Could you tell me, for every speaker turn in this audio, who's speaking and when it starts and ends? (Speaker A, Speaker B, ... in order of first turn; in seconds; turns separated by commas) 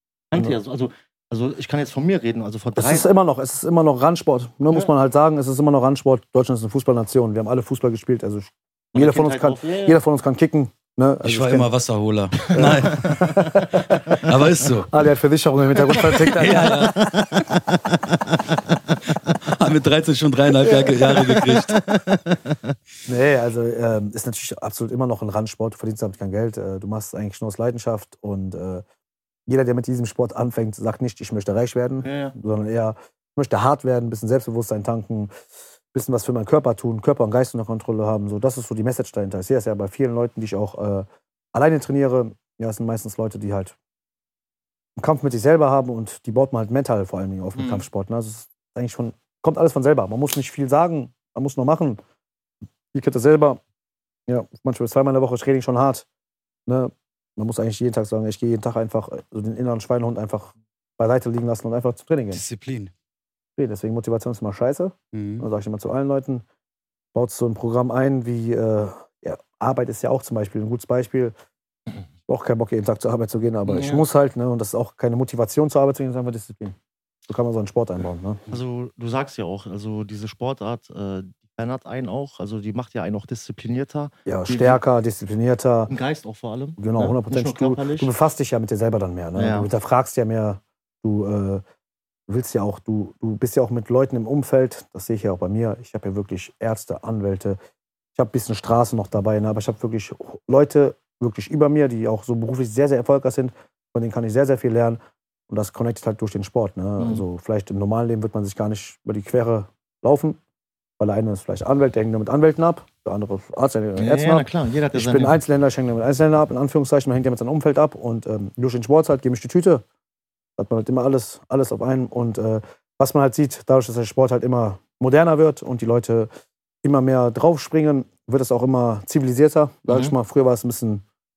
Speaker A: 0.3-3.1, Speaker B: 2.8-11.7, Speaker A: 8.9-10.0, Speaker C: 11.2-13.6, Speaker A: 12.4-13.7, Speaker B: 12.5-14.2, Speaker C: 14.1-14.9, Speaker B: 14.9-17.0, Speaker A: 15.9-19.3, Speaker C: 16.2-17.2, Speaker C: 19.3-21.9, Speaker A: 20.6-22.7, Speaker B: 23.1-28.8, Speaker B: 29.5-35.3, Speaker A: 32.0-32.3, Speaker B: 35.9-43.8, Speaker B: 45.0-52.0, Speaker A: 47.5-47.8, Speaker B: 52.9-53.6, Speaker B: 54.3-56.0, Speaker B: 56.6-62.4, Speaker C: 62.3-62.9, Speaker B: 63.5-66.4, Speaker C: 65.1-65.4, Speaker B: 67.1-71.3, Speaker B: 72.3-78.4, Speaker A: 73.7-74.0, Speaker A: 78.5-84.8, Speaker B: 84.2-85.9, Speaker A: 85.9-88.1, Speaker B: 86.8-91.6, Speaker A: 89.3-89.7, Speaker B: 92.3-97.6, Speaker B: 98.1-110.4, Speaker B: 111.0-119.8, Speaker A: 114.0-115.4, Speaker B: 120.6-126.3, Speaker B: 126.8-131.0, Speaker A: 129.9-130.1